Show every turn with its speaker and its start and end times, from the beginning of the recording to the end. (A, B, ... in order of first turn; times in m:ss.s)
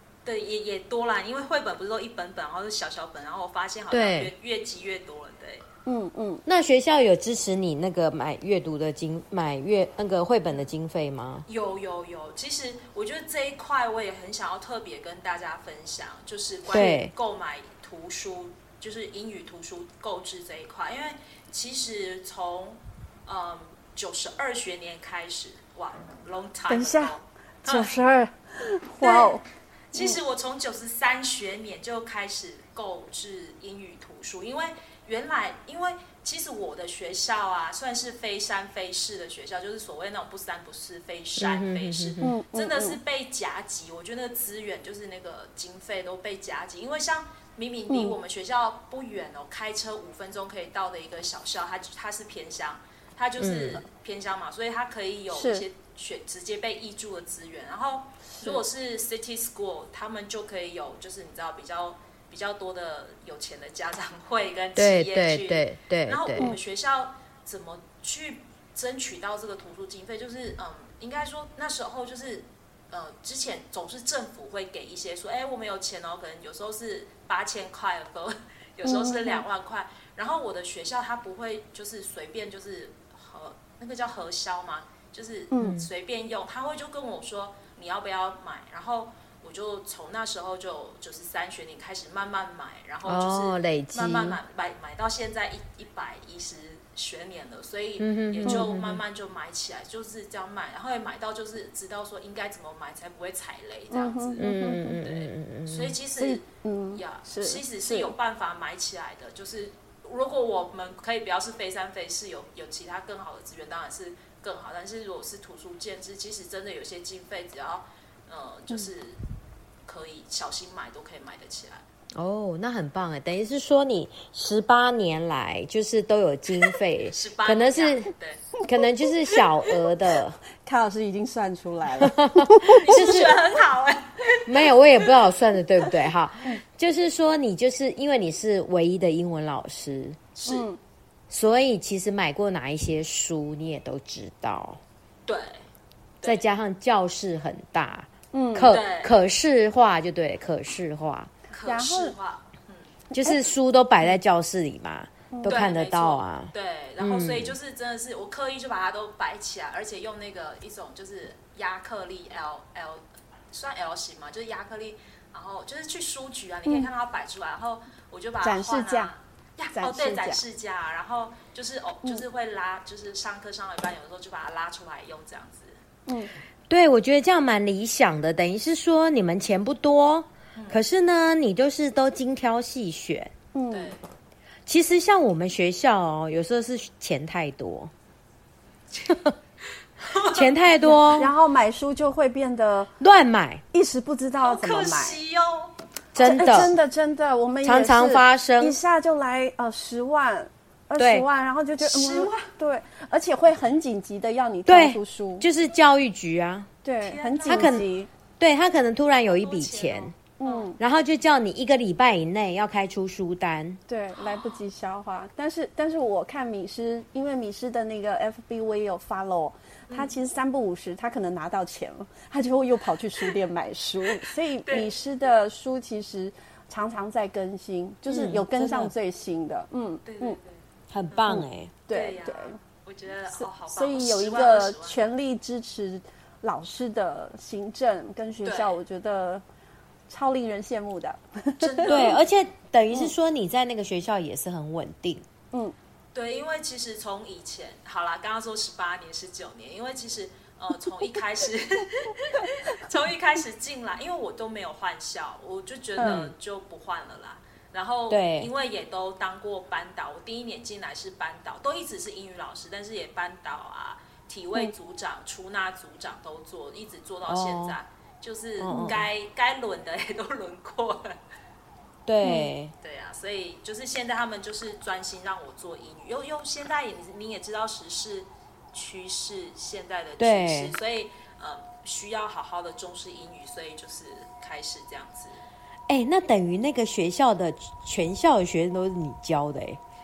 0:00.2-0:05.6 A
0:03.9-0:04.3 B
0:05.9-0:06.4 C
0:06.5-0:11.4 B
0:11.5-0:27.9 A
0:16.7-0:17.1 B
0:26.7-0:29.4 C
0:29.0-0:29.4 A
0:29.9-1:44.4 A
0:41.4-0:42.4 B
0:42.2-0:43.0 C
0:47.9-0:48.2 C
0:53.4-0:53.8 B
0:55.3-0:55.6 C
0:58.3-0:58.6 C
1:04.8-1:06.5 B
1:18.8-1:19.4 C
1:25.5-1:25.8 C
1:25.6-1:25.9 B
1:33.1-1:34.4 B
1:38.0-1:39.0 B
1:43.9-1:45.0 C
1:44.4-1:46.0 B
1:45.0-1:59.2 A
1:46.2-1:48.1 C
1:59.9-2:01.8 A
2:02.2-2:10.4 B
2:07.1-2:08.5 A
2:10.6-2:13.1 C
2:12.0-2:13.3 B
2:12.8-2:14.7 A
2:14.5-2:20.2 B
2:20.4-2:20.6 A
2:20.5-2:20.8 C
2:21.3-2:24.8 B
2:25.3-2:25.6 A
2:26.2-2:31.3 B
2:28.3-2:28.8 C
2:28.7-2:29.1 A
2:31.5-2:32.8 A
2:31.6-2:32.1 C
2:33.1-2:37.5 B
2:35.3-2:35.7 C
2:35.5-2:55.8 A
2:48.4-2:49.1 C
2:49.8-2:50.4 C
2:56.1-2:56.3 C
2:56.7-3:03.3 B
3:03.5-3:04.0 C
3:03.7-3:04.0 A
3:04.6-3:07.9 B
3:10.0-3:10.5 A
3:10.2-3:11.3 B
3:10.9-3:12.9 C
3:13.0-3:13.6 B
3:13.7-3:15.2 C
3:14.4-3:15.7 A
3:16.1-3:16.7 B
3:16.2-3:25.5 C
3:17.6-3:18.8 B
3:21.0-3:21.3 B
3:21.8-3:22.3 A
3:24.7-3:26.7 B
3:26.8-3:28.1 C
3:27.0-3:27.8 A
3:27.5-3:27.8 B
3:28.4-3:30.1 B
3:29.4-3:30.7 A
3:30.4-3:30.8 C
3:30.8-3:33.8 B
3:33.9-3:50.4 C
3:34.2-3:34.5 A
3:39.9-3:40.1 A
3:44.6-3:44.9 A
3:48.1-3:48.9 B
3:50.0-3:50.6 A
3:50.9-3:51.7 B
3:51.1-3:55.0 A
3:51.3-3:52.6 C
3:53.3-3:59.4 C
3:58.4-3:58.8 A
4:00.1-4:02.2 C
4:01.6-4:02.2 A
4:01.9-4:05.2 B
4:06.1-4:31.1 A
4:16.0-4:16.3 C
4:16.0-4:16.3 B
4:18.1-4:18.5 B
4:27.3-4:27.8 B
4:28.6-4:29.0 B
4:28.7-4:29.0 C
4:32.1-4:32.7 B
4:32.2-4:32.5 C
4:32.8-4:45.4 A
4:40.2-4:40.8 B
4:45.9-4:49.8 B